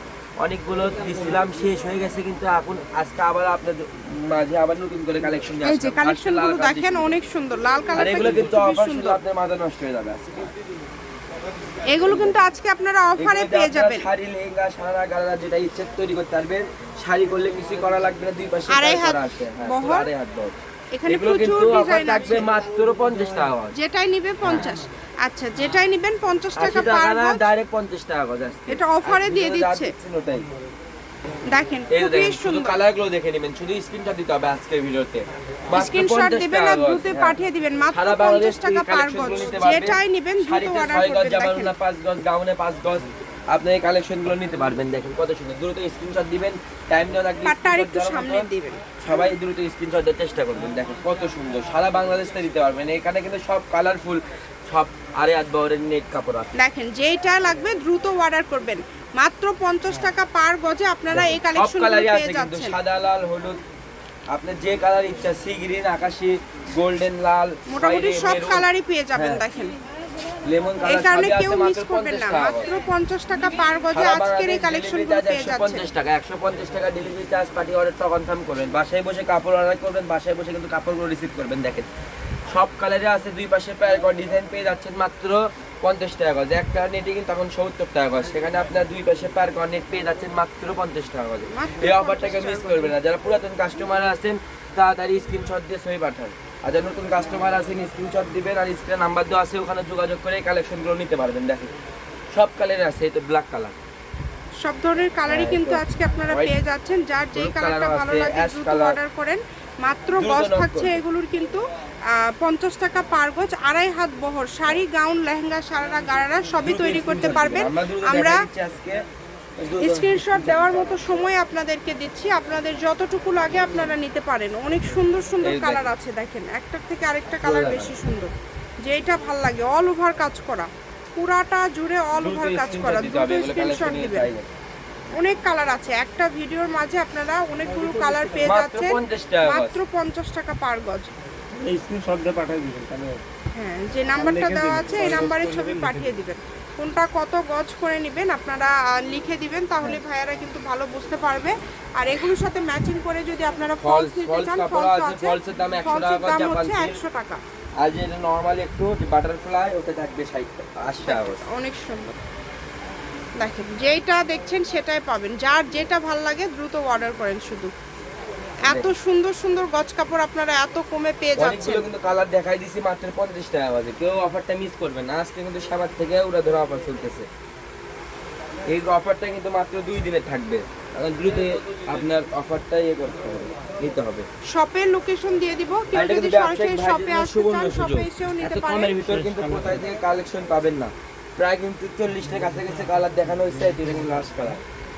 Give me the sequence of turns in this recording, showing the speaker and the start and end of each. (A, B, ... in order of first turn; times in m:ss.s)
0:00.4-0:07.2 A
0:05.6-0:09.2 B
0:08.0-0:10.5 A
0:11.9-0:14.1 B
0:12.0-0:12.4 A
0:13.2-0:20.5 A
0:18.7-0:20.1 B
0:20.9-0:22.5 B
0:21.0-0:23.8 A
0:23.7-0:27.4 B
0:24.4-0:24.7 A
0:26.6-0:30.5 A
0:28.7-0:29.9 B
0:31.5-0:32.8 B
0:31.9-0:37.4 A
0:35.7-0:41.7 B
0:37.9-0:48.5 A
0:47.4-0:49.3 B
0:49.0-0:56.5 A
0:56.5-1:02.8 B
1:01.1-1:03.6 A
1:04.3-1:09.4 A
1:07.7-1:09.7 B
1:10.4-1:12.6 A
1:10.8-1:15.9 B
1:13.9-1:21.9 A
1:22.5-1:41.7 A
1:31.5-1:33.0 B
1:42.3-1:43.8 A
1:44.6-1:58.4 B
1:45.3-1:46.5 A
1:47.3-1:49.0 A
1:50.2-1:51.0 A
1:56.6-1:59.0 A
1:59.6-2:01.3 A
1:59.8-2:08.3 B
2:05.4-2:05.9 A
2:07.4-2:08.0 A
2:08.8-2:14.3 B
2:12.2-2:14.5 A
2:15.1-2:21.1 B
2:17.7-2:18.5 C
2:18.4-2:19.8 A
2:21.6-2:23.2 C
2:23.5-2:37.4 B
2:24.2-2:25.8 A
2:24.3-2:26.0 C
2:33.8-2:37.0 A
2:37.8-2:41.5 A
2:41.0-2:42.1 B
2:43.4-2:47.7 B
2:48.7-2:48.9 A
2:48.7-2:51.8 B
2:51.4-2:57.3 A
2:58.7-3:04.2 A
3:04.5-3:08.9 B
3:05.9-3:14.6 A
3:09.1-3:09.8 C